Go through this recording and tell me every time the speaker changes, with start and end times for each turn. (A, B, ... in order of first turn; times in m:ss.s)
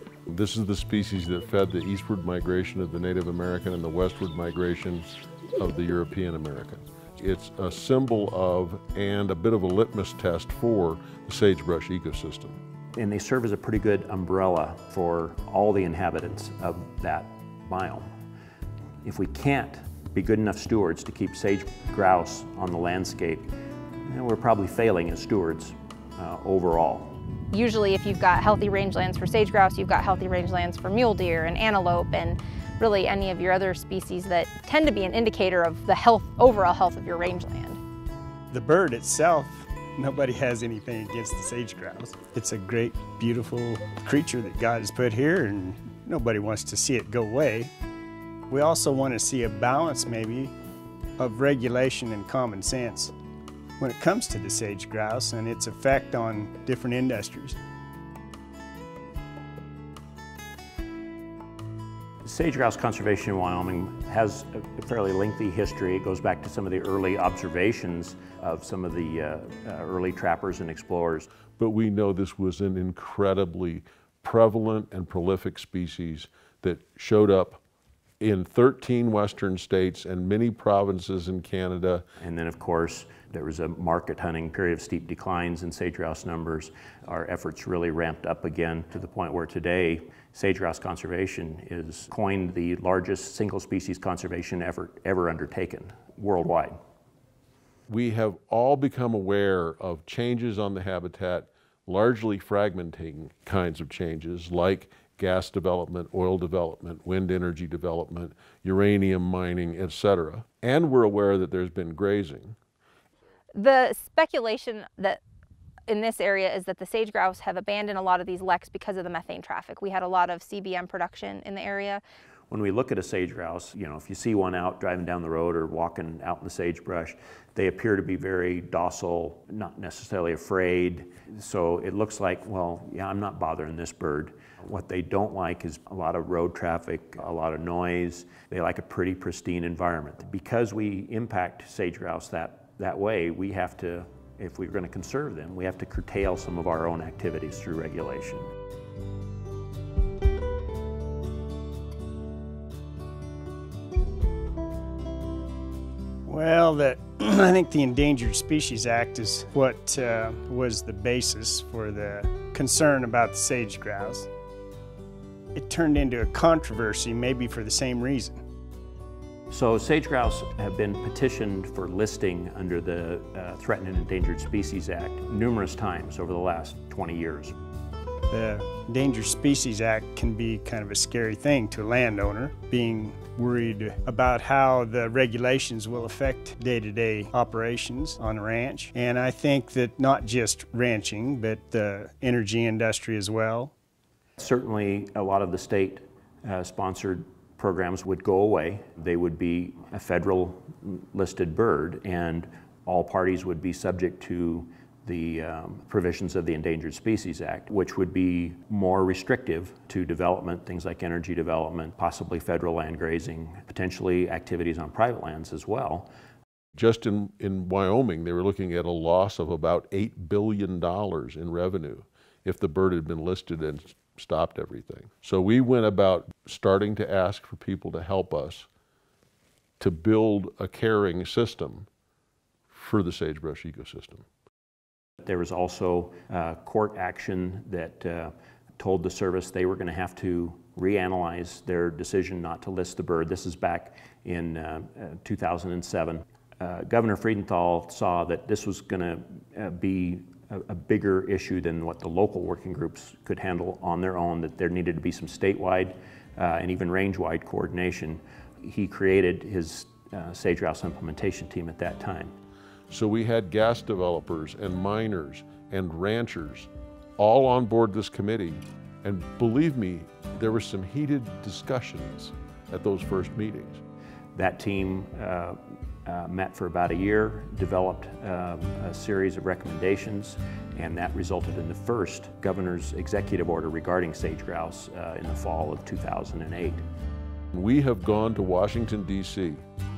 0:00.3-0:05.1 A
0:05.6-0:12.6 A
0:13.0-0:18.1 B
0:19.0-0:23.5 B
0:24.1-0:27.2 B
0:27.5-0:37.8 C
0:38.5-0:47.7 D
0:48.5-0:50.6 D
0:51.2-0:53.1 D
0:53.8-0:57.6 D
1:02.2-1:11.3 B
1:11.6-1:17.6 A
1:18.2-1:22.0 A
1:22.2-1:36.8 B
1:37.9-1:52.6 A
1:53.6-1:55.2 C
1:55.9-2:02.0 C
2:02.5-2:28.5 B
2:36.3-2:44.3 D
2:45.6-2:48.4 D
2:49.5-2:57.5 B
2:58.3-3:13.7 D
3:14.4-3:36.1 B
3:36.8-3:48.7 A
3:49.8-3:51.9 A
3:52.7-3:54.3 A
3:55.2-4:22.3 B
4:22.9-4:33.8 A
4:34.4-4:46.8 B
4:47.5-4:49.6 A